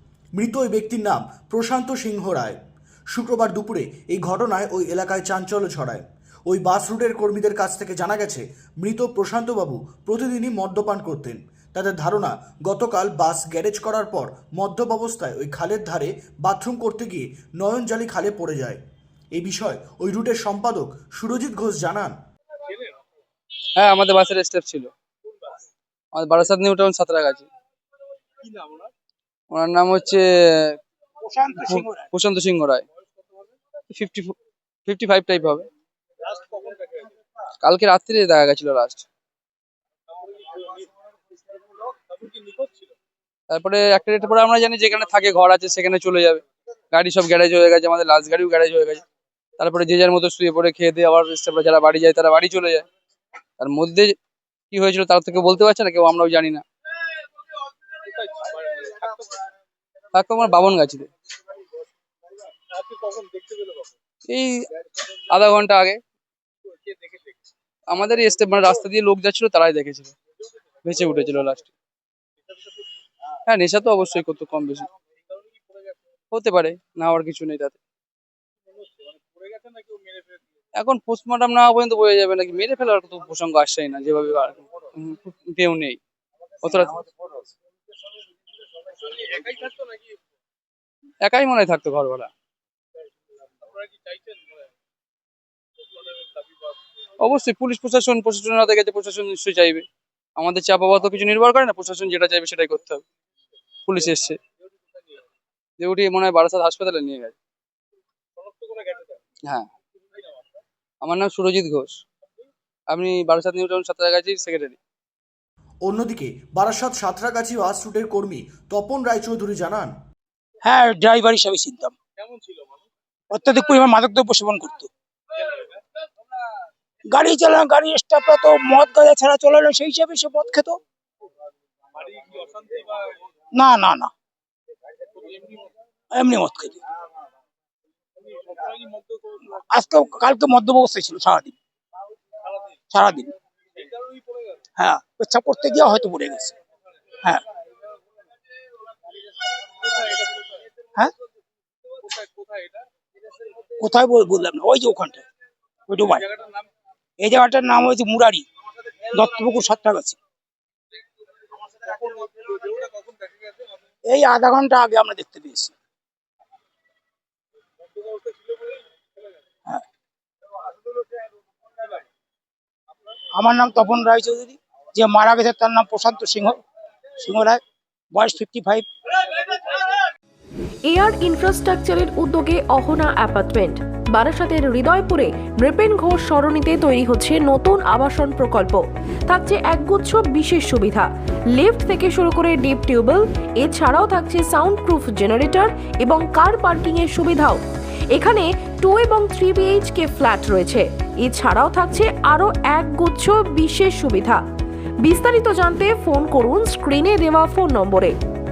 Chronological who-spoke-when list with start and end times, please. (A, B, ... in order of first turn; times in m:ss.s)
0:00.3-0:02.6 A
0:03.1-0:18.8 A
0:19.3-0:22.2 A
0:23.7-0:24.9 B
0:26.1-0:27.5 B
0:28.4-0:28.9 C
0:29.5-0:30.8 B
0:31.2-0:32.1 D
0:31.7-0:32.8 B
0:33.9-0:34.3 B
0:34.8-0:35.7 B
0:36.3-0:37.1 C
0:37.6-0:39.0 B
0:40.2-0:40.8 C
0:42.1-0:42.9 C
0:43.5-0:49.0 B
0:49.6-0:52.9 B
0:53.6-0:54.1 B
0:54.7-0:56.6 B
0:58.1-0:59.4 C
1:00.1-1:01.1 B
1:02.7-1:03.9 C
1:04.3-1:06.0 B
1:06.9-1:07.3 C
1:07.9-1:10.1 B
1:10.8-1:11.7 B
1:13.5-1:14.9 B
1:16.3-1:17.8 B
1:19.4-1:20.4 C
1:20.8-1:26.0 B
1:26.6-1:27.1 B
1:29.0-1:30.1 C
1:31.2-1:32.3 B
1:33.8-1:34.4 C
1:37.2-1:39.8 B
1:40.4-1:43.0 B
1:43.8-1:44.4 B
1:45.8-1:47.4 B
1:48.4-1:49.2 C
1:51.0-1:52.0 B
1:52.9-1:54.8 B
1:55.8-1:59.9 A
2:00.6-2:02.0 D
2:02.2-2:02.6 C
2:03.3-2:04.9 D
2:07.1-2:10.8 D
2:11.9-2:13.2 C
2:13.5-2:14.1 D
2:15.2-2:15.7 C
2:16.1-2:16.8 D
2:18.3-2:19.4 C
2:19.5-2:21.5 D
2:22.9-2:23.3 D
2:24.0-2:24.5 C
2:24.8-2:26.5 D
2:29.8-2:30.6 C
2:31.9-2:32.8 C
2:33.8-2:35.2 D
2:35.9-2:36.3 D
2:37.2-2:38.4 D
2:39.0-2:40.2 D
2:41.8-2:43.4 C
2:44.1-2:45.7 D
2:48.0-2:48.8 C
2:53.4-2:56.6 D
2:57.2-2:57.6 D
2:58.1-2:58.9 D
2:59.4-2:59.8 D
3:00.9-3:17.6 E
3:18.1-3:24.4 E
3:25.0-3:28.1 E